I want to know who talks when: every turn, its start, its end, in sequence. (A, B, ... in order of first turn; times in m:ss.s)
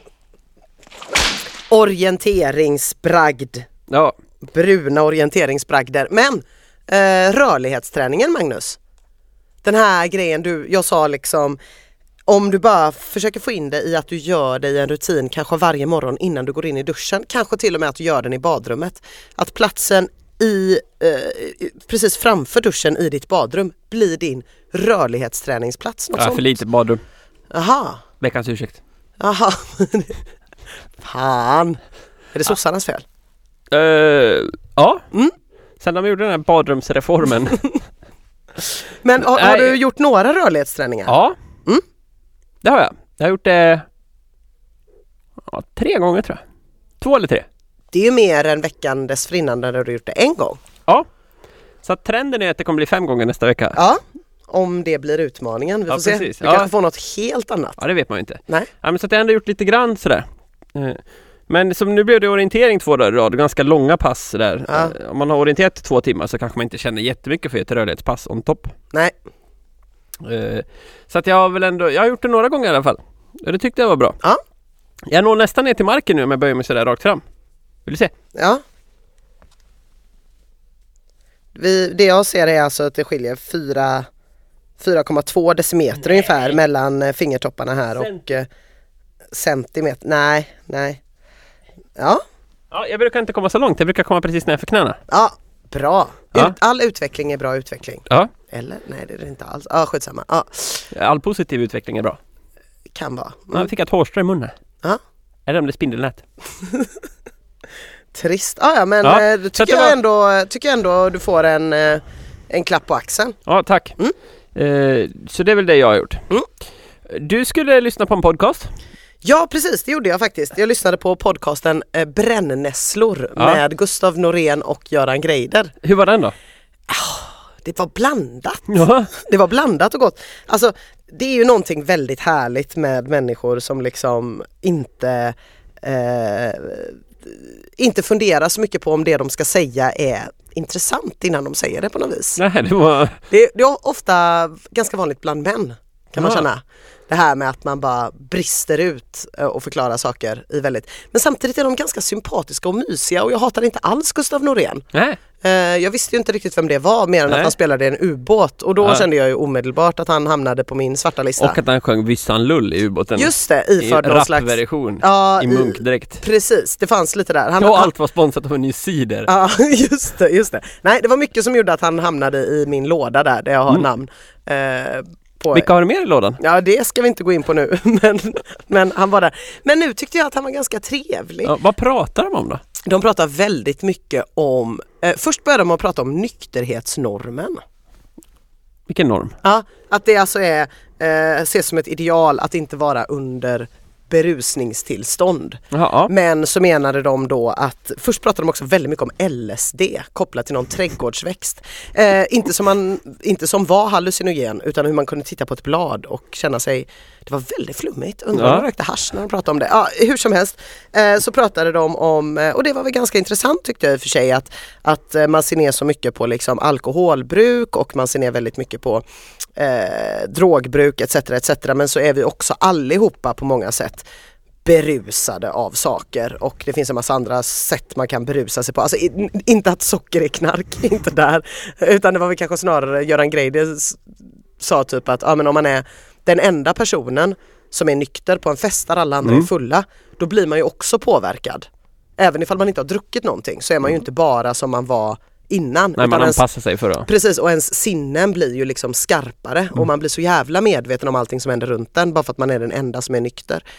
0:01.7-0:03.7 A
0:03.9-0:04.1 B
0:04.4-0:08.8 A
0:09.6-0:11.6 A
0:12.2-0:26.4 A
0:26.1-0:27.0 B
0:27.5-0:28.0 A
0:28.2-0:28.8 B
0:29.2-0:30.1 A
0:31.0-0:31.8 A
0:32.3-0:33.0 A
0:33.7-0:35.0 B
0:35.8-0:37.7 B
0:39.0-0:41.1 A
0:39.2-0:39.8 B
0:41.0-0:41.4 B
0:42.6-0:43.8 B
0:45.4-0:46.4 B
0:47.0-0:47.4 B
0:47.9-0:50.6 A
0:51.8-0:53.8 B
0:53.7-0:57.8 A
0:55.9-0:56.7 B
0:57.8-1:08.7 B
1:04.7-1:04.9 A
1:10.2-1:14.2 B
1:15.1-1:17.2 B
1:17.8-1:18.1 B
1:18.3-1:18.6 A
1:21.5-1:24.1 A
1:24.8-1:28.5 A
1:29.3-1:31.0 A
1:32.0-1:32.2 A
1:32.7-1:35.0 B
1:35.1-1:40.8 A
1:40.9-1:42.2 B
1:42.9-1:43.7 A
1:43.5-1:44.5 B
1:45.5-1:46.2 B
1:48.1-1:53.4 A
1:49.0-1:49.9 B
1:53.4-1:54.0 B
1:54.5-1:56.2 B
1:57.1-1:58.7 B
1:59.2-2:05.7 A
2:03.4-2:03.6 B
2:05.8-2:06.3 B
2:06.9-2:22.4 A
2:08.7-2:09.1 B
2:22.4-2:23.2 B
2:23.3-2:34.8 A
2:26.2-2:26.4 B
2:34.9-2:35.2 B
2:35.4-2:41.6 A
2:37.3-2:37.5 B
2:41.4-2:46.2 B
2:43.2-2:47.9 A
2:47.6-2:49.3 B
2:49.3-2:55.7 A
2:55.5-2:56.4 B
2:56.4-3:01.5 A
3:01.4-3:02.6 B
3:02.8-3:07.6 A
3:08.9-3:09.4 B
3:09.4-3:39.0 A
3:15.7-3:16.1 B
3:28.3-3:28.6 B
3:39.6-3:44.1 A
3:44.6-3:54.0 A
3:54.6-4:01.7 A
4:02.2-4:06.4 A
4:06.0-4:07.1 B
4:07.0-4:13.6 A